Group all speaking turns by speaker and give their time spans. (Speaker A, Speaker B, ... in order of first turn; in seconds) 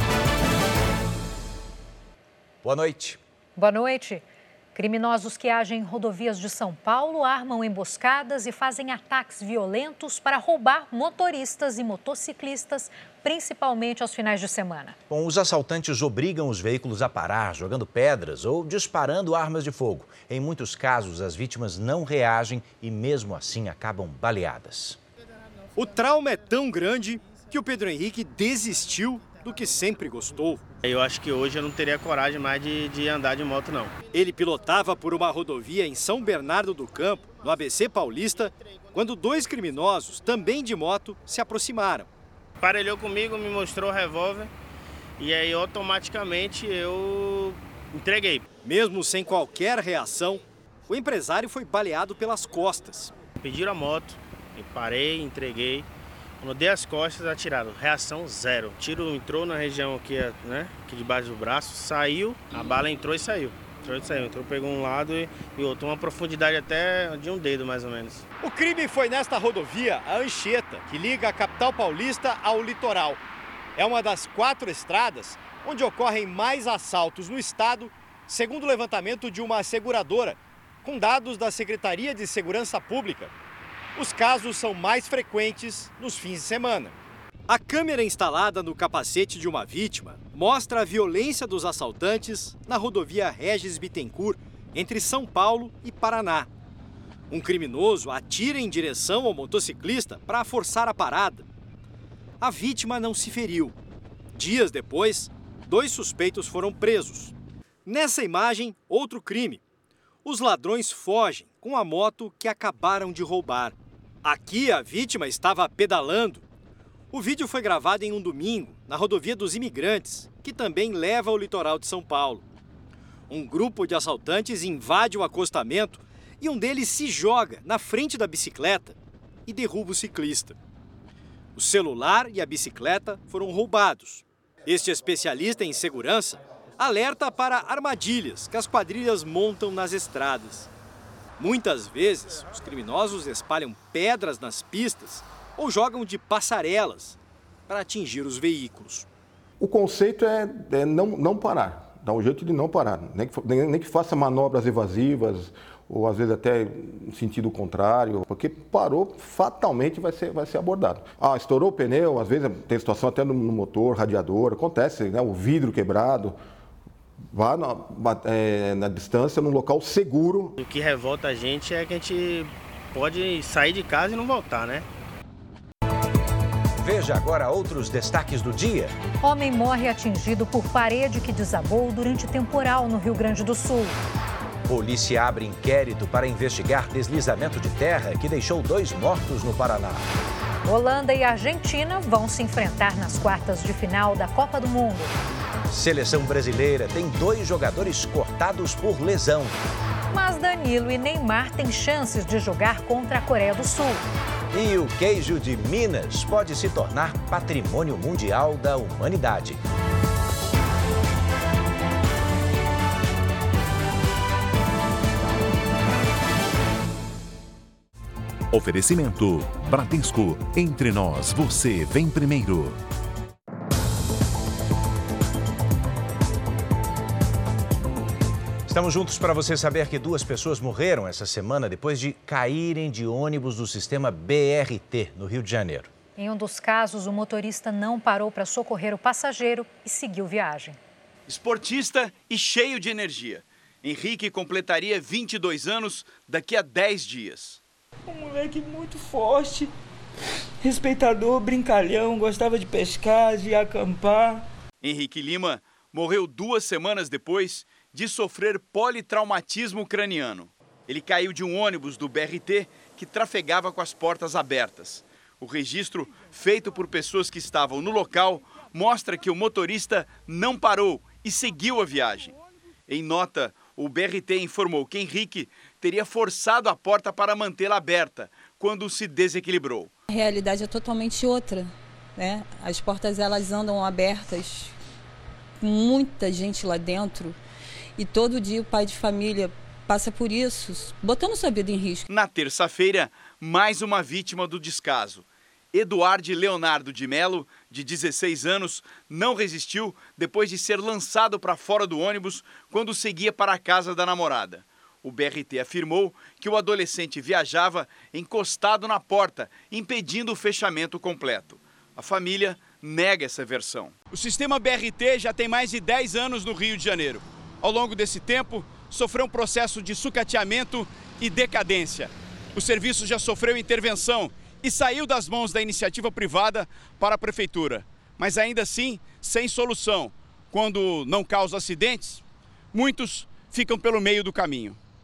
Speaker A: 2.6-3.2, 15.1-25.0, 176.8-178.9, 184.6-190.1, 195.7-199.6, 204.5-209.6, 228.7-235.9
Speaker B: 3.6-4.2, 4.8-15.0, 179.2-183.9, 190.6-195.1, 200.1-204.0, 236.2-240.8
Speaker C: 25.8-30.6, 34.1-42.1, 48.6-53.1, 68.4-73.2, 73.8-83.3, 84.0-86.9, 87.5-96.5, 97.3-101.4, 102.4-103.7, 104.3-107.3, 107.8-109.6, 110.2-116.4, 117.1-122.4, 123.3-130.6, 131.5-140.7, 141.4-147.2, 147.7-149.1
Speaker D: 30.8-33.9, 42.6-44.5, 45.2-48.5, 53.4-55.9, 56.4-68.2, 170.6-174.8
Speaker E: 149.6-166.4, 167.3-170.6
Speaker F: 218.8-220.8, 222.4-222.7
Speaker G: 241.3-247.6, 254.8-272.3, 272.9-279.9, 292.1-334.8
Speaker H: 248.1-249.7, 250.6-254.5
Speaker I: 280.1-284.8, 285.6-287.4, 288.0-292.1